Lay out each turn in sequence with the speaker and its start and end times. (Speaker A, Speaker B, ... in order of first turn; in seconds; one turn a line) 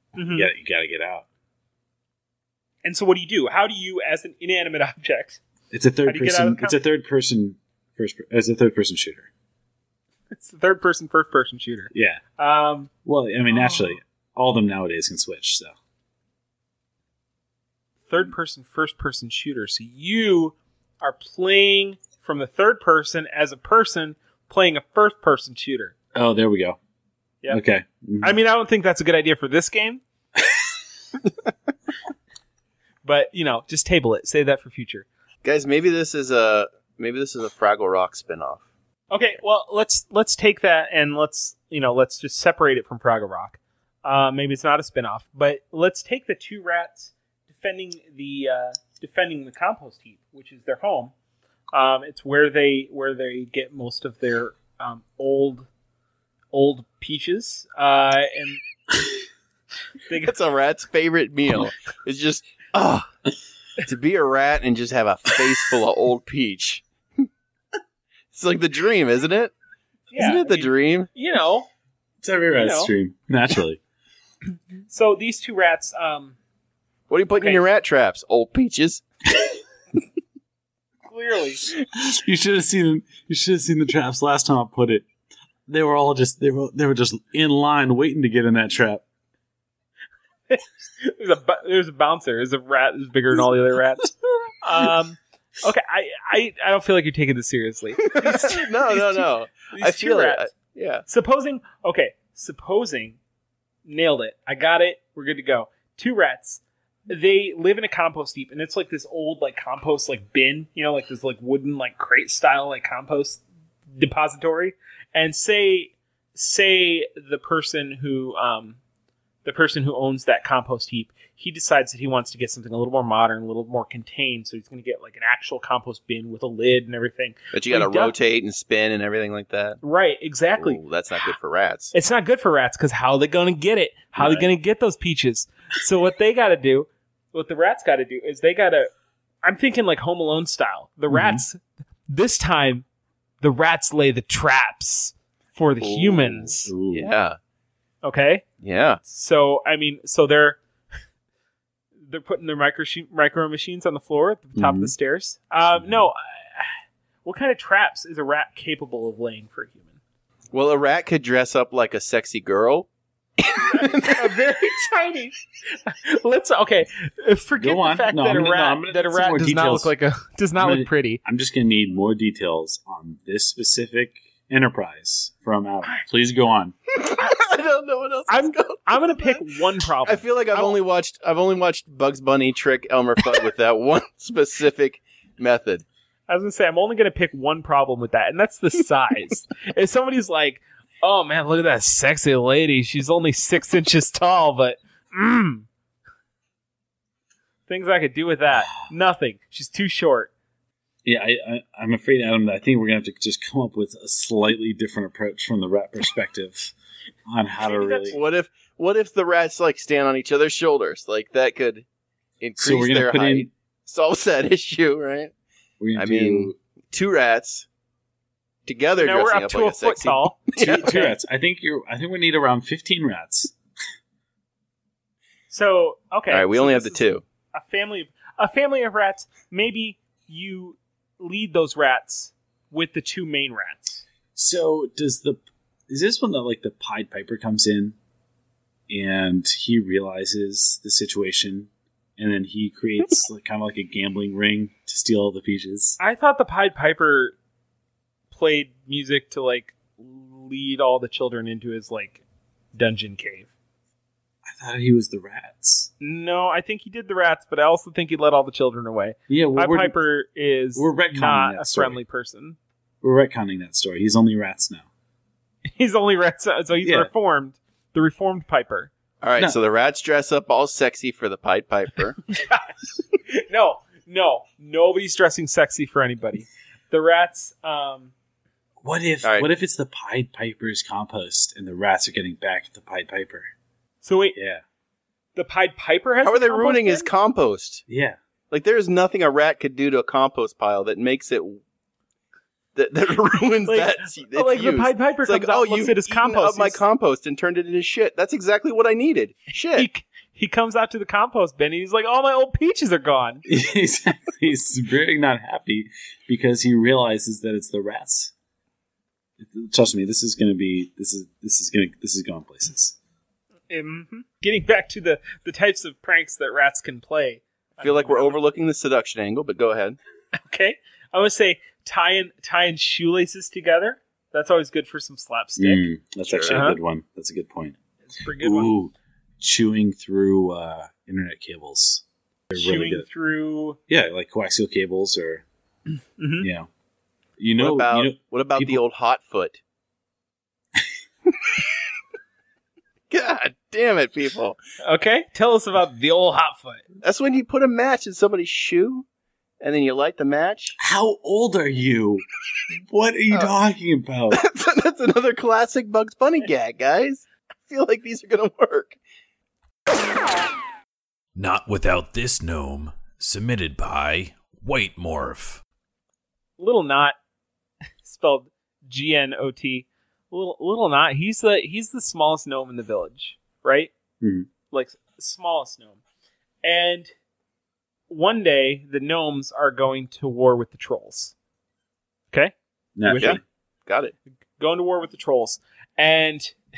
Speaker A: 0.1-0.5
Speaker B: 0.2-1.2
Speaker A: 2.8-5.4
Speaker B: 5.7-9.3
Speaker A: 6.0-6.8
Speaker A: 10.3-12.9
Speaker B: 11.9-12.2
Speaker B: 13.0-15.7
Speaker A: 13.5-13.8
Speaker A: 18.1-25.9
Speaker B: 26.1-26.8
Speaker B: 27.5-28.4
Speaker A: 28.2-30.0
Speaker A: 33.0-35.0
Speaker C: 35.4-38.6
Speaker A: 39.1-51.1
Speaker A: 51.7-55.7
Speaker A: 56.5-58.6
Speaker A: 60.1-60.3
Speaker C: 60.2-63.1
Speaker C: 63.8-67.2
Speaker C: 68.3-69.5
Speaker A: 70.1-71.7
Speaker C: 70.1-71.1
Speaker B: 72.2-73.8
Speaker A: 72.6-72.9
Speaker A: 74.9-76.3
Speaker C: 77.1-79.0
Speaker A: 81.0-81.7
Speaker B: 81.9-85.0
Speaker B: 85.7-89.0
Speaker A: 90.5-100.5
Speaker C: 98.0-101.0
Speaker A: 101.1-103.2
Speaker A: 103.8-113.4
Speaker A: 113.9-118.8
Speaker A: 119.4-128.1
Speaker C: 127.5-129.8
Speaker A: 129.8-130.8
Speaker C: 130.6-131.9
Speaker A: 131.9-138.9
Speaker A: 139.4-142.8
Speaker B: 141.1-141.4
Speaker A: 143.4-146.7
Speaker C: 145.8-147.4
Speaker B: 146.7-147.1
Speaker A: 148.0-148.4
Speaker C: 148.6-149.0
Speaker A: 149.0-150.6
Speaker A: 152.0-156.7
Speaker B: 154.6-154.9
Speaker B: 155.8-156.1
Speaker A: 157.2-159.9
Speaker C: 160.5-162.9
Speaker C: 163.4-164.3
Speaker A: 163.7-171.2
Speaker B: 167.6-169.9
Speaker B: 170.6-176.8
Speaker C: 177.0-179.4
Speaker A: 178.3-180.8
Speaker C: 180.0-185.8
Speaker A: 186.3-195.7
Speaker A: 197.7-200.3
Speaker B: 201.0-206.7
Speaker B: 207.3-208.2
Speaker A: 207.6-208.2
Speaker C: 208.1-211.8
Speaker C: 212.4-215.3
Speaker B: 212.6-213.5
Speaker B: 215.8-216.6
Speaker C: 215.9-217.7
Speaker C: 218.7-220.9
Speaker A: 219.0-221.2
Speaker B: 220.6-223.5
Speaker A: 225.5-234.0
Speaker C: 226.3-227.2
Speaker B: 234.3-237.9
Speaker B: 238.9-246.0
Speaker A: 246.0-247.3
Speaker A: 248.3-252.2
Speaker A: 252.7-253.5
Speaker B: 254.4-255.9
Speaker A: 256.0-262.6
Speaker B: 259.3-259.9
Speaker B: 260.8-262.0
Speaker B: 263.0-264.9
Speaker A: 265.7-268.9
Speaker B: 266.8-267.1
Speaker C: 269.2-272.2
Speaker A: 272.3-272.7
Speaker A: 273.3-278.1
Speaker B: 278.8-283.5
Speaker C: 279.2-279.5
Speaker A: 284.0-284.4
Speaker B: 284.3-284.6
Speaker A: 285.4-287.1
Speaker C: 286.2-287.8
Speaker B: 287.9-288.2
Speaker C: 288.5-291.6
Speaker C: 292.7-299.9
Speaker A: 293.7-296.8
Speaker A: 299.8-303.4
Speaker B: 303.4-308.3
Speaker B: 309.4-312.9
Speaker A: 313.7-318.3
Speaker C: 317.8-320.0
Speaker A: 320.4-325.8
Speaker B: 325.6-327.8
Speaker C: 326.2-326.6
Speaker A: 326.5-326.8
Speaker A: 328.1-328.7
Speaker B: 328.4-333.1
Speaker A: 332.5-333.8
Speaker B: 333.9-335.4
Speaker A: 336.2-336.5
Speaker B: 336.4-336.7
Speaker B: 337.4-338.8
Speaker C: 337.6-339.6
Speaker C: 343.1-344.6
Speaker A: 344.8-346.8
Speaker C: 347.0-349.1
Speaker C: 349.6-350.8
Speaker B: 350.8-352.2
Speaker B: 352.7-354.4
Speaker C: 354.3-359.0
Speaker D: 361.4-365.6
Speaker A: 366.6-367.1
Speaker A: 368.0-373.9
Speaker B: 374.2-374.5
Speaker A: 374.7-376.0
Speaker A: 376.6-377.1
Speaker A: 378.1-381.3
Speaker A: 382.3-383.4
Speaker B: 383.0-383.4
Speaker C: 383.1-384.1
Speaker A: 384.6-386.6